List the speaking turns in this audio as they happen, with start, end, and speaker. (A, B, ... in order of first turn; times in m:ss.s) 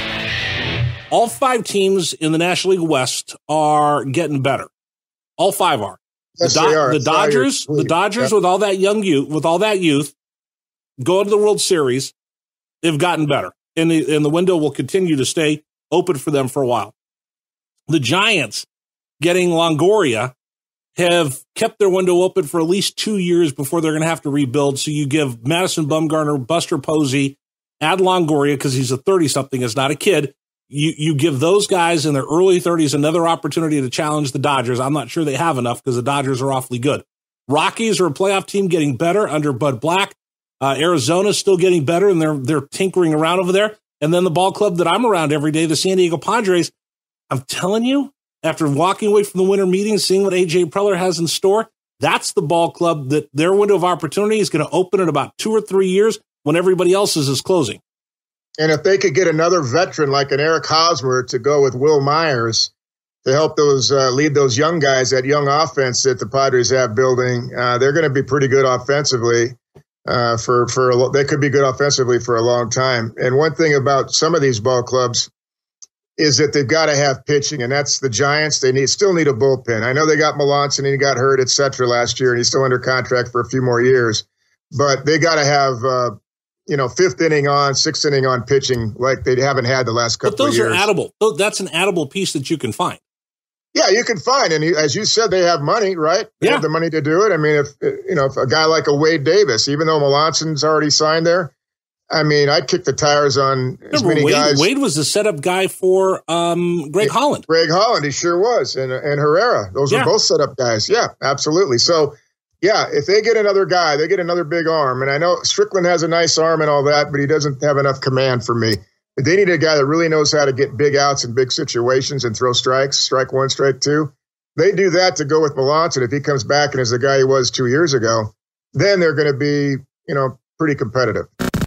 0:01.1-0:04.7 A
0:05.4-0:10.2 A
0:06.4-0:08.3 B
0:11.0-0:12.1 A
0:12.8-0:17.0 A
0:17.9-0:18.7 A
0:19.2-0:20.3 A
0:21.0-0:46.7 A
0:47.3-0:57.8 A
0:58.6-1:02.7 B
1:03.2-1:15.3 B
1:16.2-1:26.2 B
1:26.7-1:30.9 B
1:30.2-1:33.0 A
1:33.7-1:41.5 B
1:42.1-1:44.7 B
1:43.9-1:47.4 A
1:47.0-2:11.3 B